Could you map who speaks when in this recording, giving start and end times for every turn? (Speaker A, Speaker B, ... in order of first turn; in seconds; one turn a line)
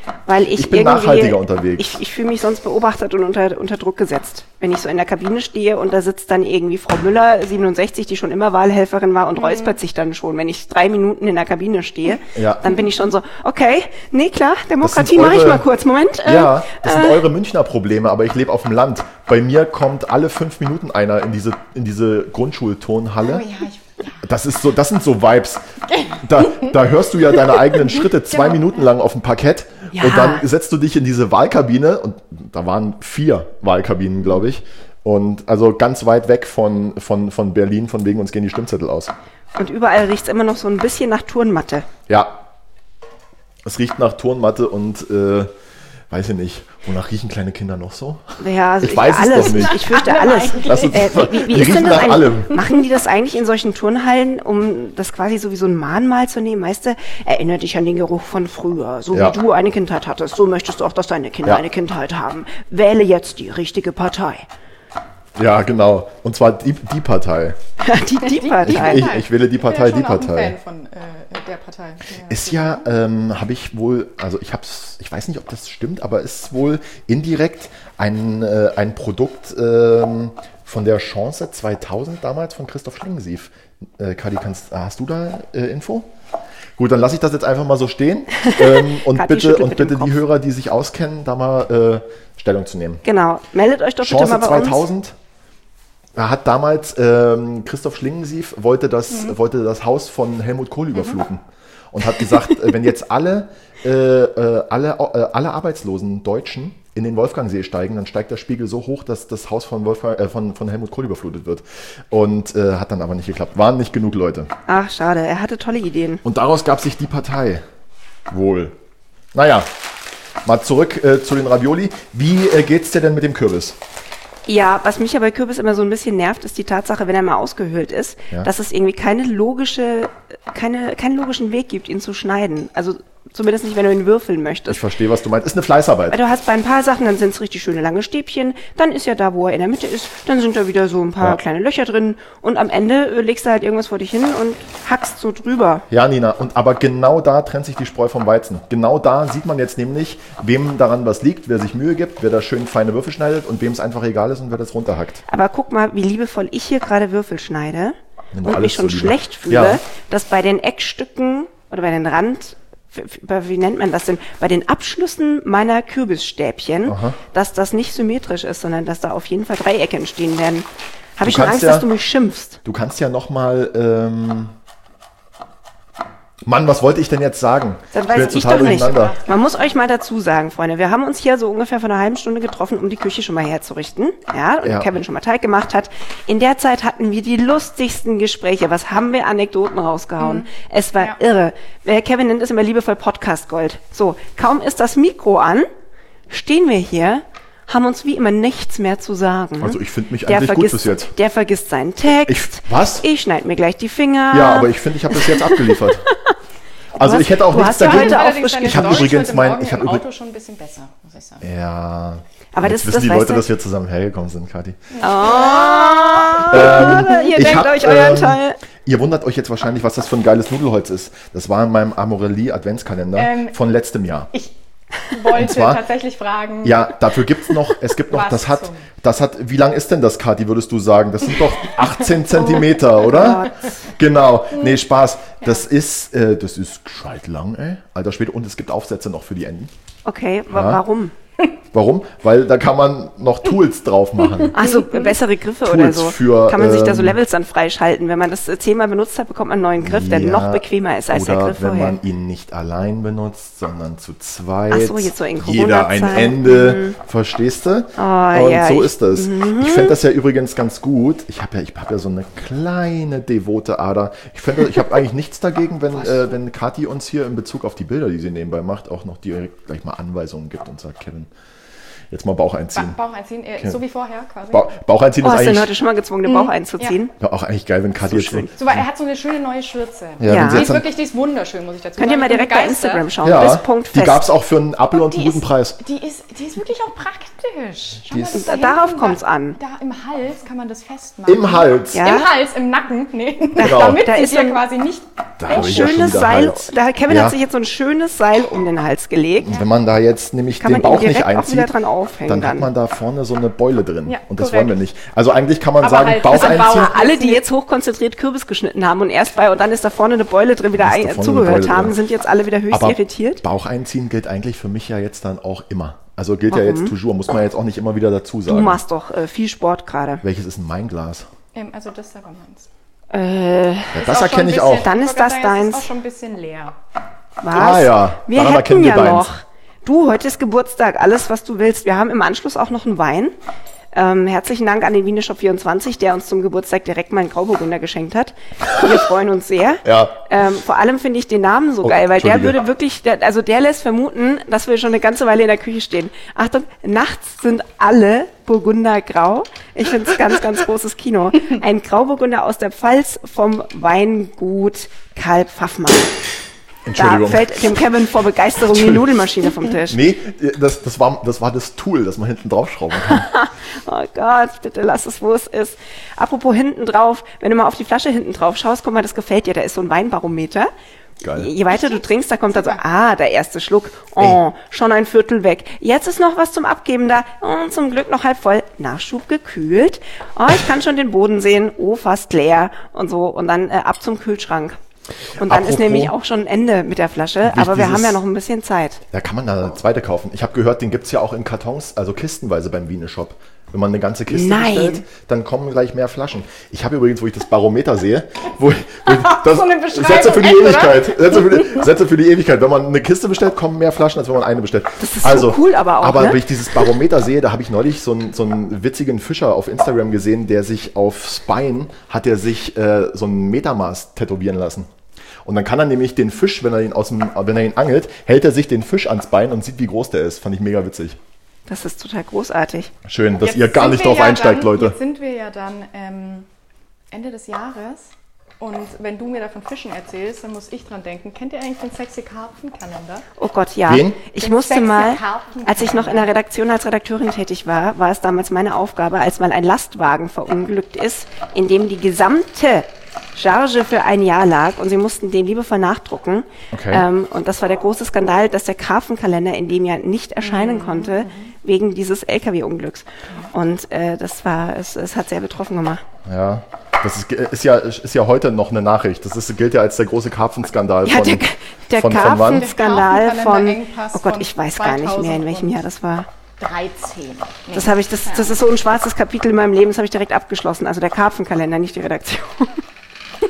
Speaker A: 0.3-17.2
Speaker B: 0.5-2.0
Speaker C: 9.4-9.8
Speaker B: 12.3-12.7
Speaker B: 14.8-15.7
Speaker B: 16.2-23.5
Speaker C: 23.2-24.2
Speaker B: 24.2-25.6
Speaker C: 25.9-26.7
Speaker B: 26.2-39.1
Speaker C: 27.4-28.8
Speaker A: 29.9-30.4
Speaker A: 39.5-41.9
Speaker B: 42.1-42.4
Speaker B: 43.6-45.5
Speaker B: 46.1-52.6
Speaker A: 48.4-64.5
Speaker C: 49.8-50.8
Speaker B: 65.4-67.6
Speaker A: 67.8-69.1
Speaker C: 68.2-72.8
Speaker B: 68.7-70.6
Speaker B: 72.3-86.1
Speaker B: 86.8-93.0
Speaker A: 88.4-90.2
Speaker A: 93.0-94.8
Speaker B: 94.0-95.2
Speaker B: 96.2-114.5
Speaker A: 114.7-116.2
Speaker B: 116.2-117.6
Speaker B: 118.3-118.8
Speaker B: 119.3-119.7
Speaker B: 120.5-123.8
Speaker A: 124.5-134.8
Speaker B: 134.7-136.2
Speaker A: 136.1-145.8
Speaker B: 145.9-155.2
Speaker A: 155.3-172.6
Speaker B: 158.3-159.8
Speaker B: 166.9-167.2
Speaker B: 171.2-171.9
Speaker B: 172.7-174.5
Speaker B: 176.5-179.2
Speaker C: 177.9-179.8
Speaker A: 177.9-195.7
Speaker B: 184.6-184.9
Speaker C: 190.2-191.2
Speaker A: 196.3-206.3
Speaker B: 199.6-201.1
Speaker B: 202.3-203.1
Speaker B: 204.3-206.1
Speaker B: 206.9-210.0
Speaker A: 207.0-209.1
Speaker C: 207.7-211.5
Speaker B: 211.4-214.8
Speaker A: 212.5-213.5
Speaker C: 214.9-217.3
Speaker A: 215.0-218.6
Speaker B: 216.5-224.3
Speaker C: 223.2-223.6
Speaker C: 225.1-226.9
Speaker B: 225.3-225.8
Speaker B: 226.6-239.7
Speaker C: 228.1-228.9
Speaker A: 233.1-233.7
Speaker A: 240.1-241.1
Speaker B: 240.5-240.8
Speaker B: 241.7-244.6
Speaker A: 244.5-252.0
Speaker B: 245.6-247.2
Speaker B: 249.8-271.3
Speaker A: 254.7-257.0
Speaker A: 258.0-260.0
Speaker B: 272.1-273.0
Speaker C: 272.7-274.7
Speaker B: 274.5-275.7
Speaker A: 275.2-277.1
Speaker C: 276.3-277.0
Speaker B: 277.2-278.8
Speaker A: 278.1-278.5
Speaker C: 278.6-283.1
Speaker B: 280.2-280.9
Speaker A: 280.3-280.7
Speaker A: 282.0-284.2
Speaker B: 283.2-285.8
Speaker C: 285.1-295.9
Speaker B: 288.1-288.4
Speaker A: 288.3-289.6
Speaker B: 291.3-292.1
Speaker A: 291.9-292.3
Speaker A: 293.6-294.6
Speaker B: 293.6-294.0
Speaker B: 295.4-297.4
Speaker A: 295.5-299.6
Speaker B: 299.4-301.7
Speaker A: 300.6-302.7
Speaker B: 302.3-306.9
Speaker C: 304.1-304.8
Speaker C: 305.8-307.4
Speaker A: 306.3-313.4
Speaker B: 310.8-312.0
Speaker B: 312.7-318.8
Speaker A: 316.5-316.9
Speaker A: 318.5-320.2
Speaker B: 320.2-321.3
Speaker C: 321.5-322.7
Speaker A: 323.1-324.0
Speaker B: 323.9-324.9
Speaker C: 324.0-326.8
Speaker A: 324.8-325.9
Speaker A: 327.4-333.4
Speaker B: 327.5-329.3
Speaker A: 333.9-356.1
Speaker B: 339.9-340.2
Speaker B: 341.8-342.6
Speaker B: 356.9-357.7
Speaker A: 356.9-360.0
Speaker B: 358.7-359.1
Speaker B: 359.9-363.3
Speaker A: 363.0-370.7
Speaker B: 371.2-371.5
Speaker A: 371.4-384.8
Speaker A: 385.4-389.0
Speaker B: 385.4-386.1
Speaker B: 387.4-388.2
Speaker B: 389.1-414.9
Speaker A: 394.3-395.0
Speaker C: 399.1-401.7
Speaker A: 405.0-406.8
Speaker B: 415.4-421.2
Speaker A: 421.7-422.9
Speaker B: 423.1-425.0
Speaker C: 423.4-426.5
Speaker C: 427.1-433.3
Speaker A: 433.4-456.0
Speaker B: 433.9-434.2
Speaker C: 434.4-436.3
Speaker B: 446.7-447.1
Speaker C: 450.4-451.5
Speaker B: 456.2-462.7
Speaker A: 461.1-466.3
Speaker C: 462.1-465.8
Speaker C: 466.6-468.5
Speaker A: 467.7-472.8